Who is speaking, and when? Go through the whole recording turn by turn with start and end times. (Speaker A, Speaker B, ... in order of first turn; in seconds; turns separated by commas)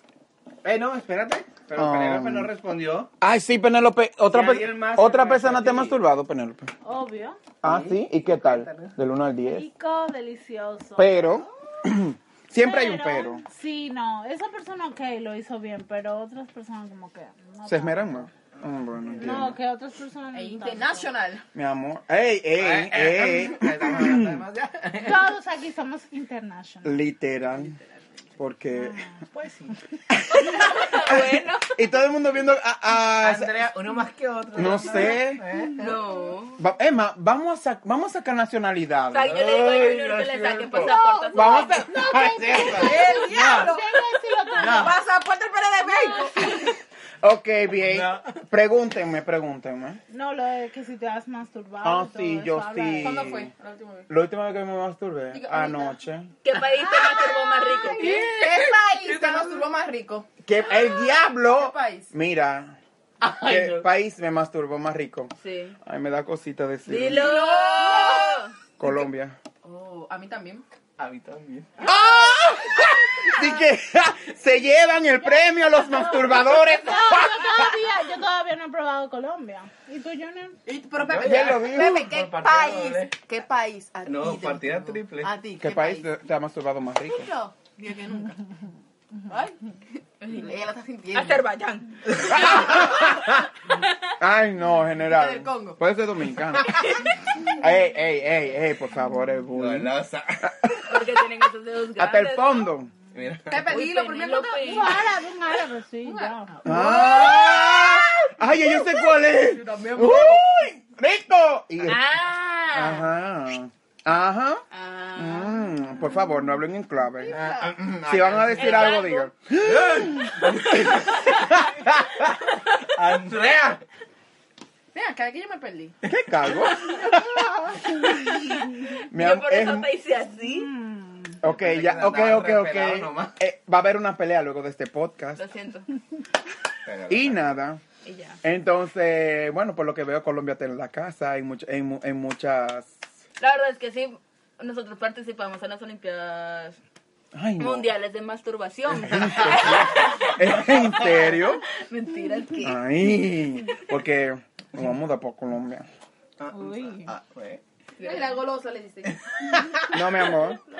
Speaker A: 0.6-3.1, Speaker B: 1.8-2.5, Speaker B: 3.2-6.7, Speaker A: 4.3-6.0, Speaker C: 6.8-7.4, Speaker B: 7.6-9.7, Speaker A: 7.6-8.9, Speaker C: 9.5-11.4, Speaker B: 11.0-13.4, Speaker C: 12.6-18.3, Speaker B: 17.6-19.6, Speaker A: 18.9-19.4, Speaker C: 19.2-21.1, Speaker D: 20.3-21.4, Speaker B: 21.5-24.4, Speaker A: 22.6-25.3, Speaker C: 25.0-27.0, Speaker B: 26.8-27.8, Speaker B: 28.4-29.1, Speaker C: 28.7-29.2, Speaker A: 29.3-29.8, Speaker B: 30.1-33.7, Speaker E: 30.3-31.9, Speaker A: 33.2-36.0, Speaker B: 34.5-35.4, Speaker E: 35.8-36.6, Speaker B: 36.6-39.4, Speaker E: 39.1-41.9, Speaker A: 39.2-41.0, Speaker C: 40.8-45.0, Speaker B: 41.3-42.9, Speaker A: 42.2-43.6, Speaker D: 42.8-46.7, Speaker A: 44.5-45.0, Speaker C: 45.9-46.3, Speaker B: 47.2-50.0, Speaker A: 47.8-48.4, Speaker C: 50.1-53.3, Speaker B: 51.8-53.5, Speaker D: 53.0-54.1, Speaker B: 54.1-56.3, Speaker D: 55.3-56.0, Speaker E: 56.4-58.2, Speaker C: 56.9-58.2, Speaker D: 57.7-62.1, Speaker A: 58.1-59.6, Speaker B: 60.4-62.8, Speaker A: 63.2-63.9, Speaker B: 63.4-67.3, Speaker E: 65.4-65.8, Speaker E: 66.8-68.5, Speaker D: 67.1-68.9, Speaker B: 68.8-69.4, Speaker D: 69.6-70.6, Speaker A: 71.0-71.7, Speaker B: 71.8-77.8, Speaker C: 75.9-80.6, Speaker D: 80.7-86.1, Speaker A: 81.0-83.1, Speaker B: 81.2-82.1, Speaker A: 84.0-85.3, Speaker B: 85.6-87.3, Speaker D: 87.0-88.4, Speaker D: 89.3-91.5, Speaker E: 90.2-90.5, Speaker E: 91.1-93.0, Speaker A: 92.1-92.5, Speaker B: 92.2-93.4, Speaker D: 92.4-92.8, Speaker B: 94.2-96.8, Speaker D: 95.0-95.8, Speaker E: 96.8-97.0, Speaker B: 97.5-101.1, Speaker A: 99.5-100.8, Speaker E: 100.8-102.7, Speaker B: 102.0-102.9, Speaker A: 103.1-103.7, Speaker D: 103.5-105.0, Speaker E: 103.7-105.0, Speaker C: 104.6-107.0, Speaker D: 106.0-108.3, Speaker B: 106.6-112.0, Speaker E: 107.2-107.6, Speaker D: 109.3-110.4, Speaker E: 111.8-113.1, Speaker B: 112.7-114.6, Speaker E: 114.7-115.7, Speaker B: 115.2-117.3, Speaker D: 117.2-117.7, Speaker A: 117.3-119.0, Speaker B: 118.0-122.3, Speaker E: 118.5-119.3, Speaker A: 119.6-121.7, Speaker A: 122.8-123.8, Speaker D: 124.9-126.0, Speaker B: 126.0-128.3, Speaker E: 128.1-130.7, Speaker B: 129.1-129.9, Speaker C: 130.4-131.4, Speaker B: 131.4-135.4, Speaker A: 131.4-133.4, Speaker E: 135.4-135.9, Speaker A: 136.8-137.6, Speaker B: 137.1-137.8, Speaker E: 138.0-138.4, Speaker B: 138.4-142.9, Speaker E: 143.4-146.8, Speaker B: 147.3-147.9, Speaker E: 147.6-152.8, Speaker B: 149.0-151.6, Speaker B: 152.6-155.9, Speaker A: 156.4-157.6, Speaker C: 156.5-157.1, Speaker E: 158.0-158.4, Speaker D: 158.0-159.2, Speaker A: 159.0-160.0, Speaker B: 159.9-160.6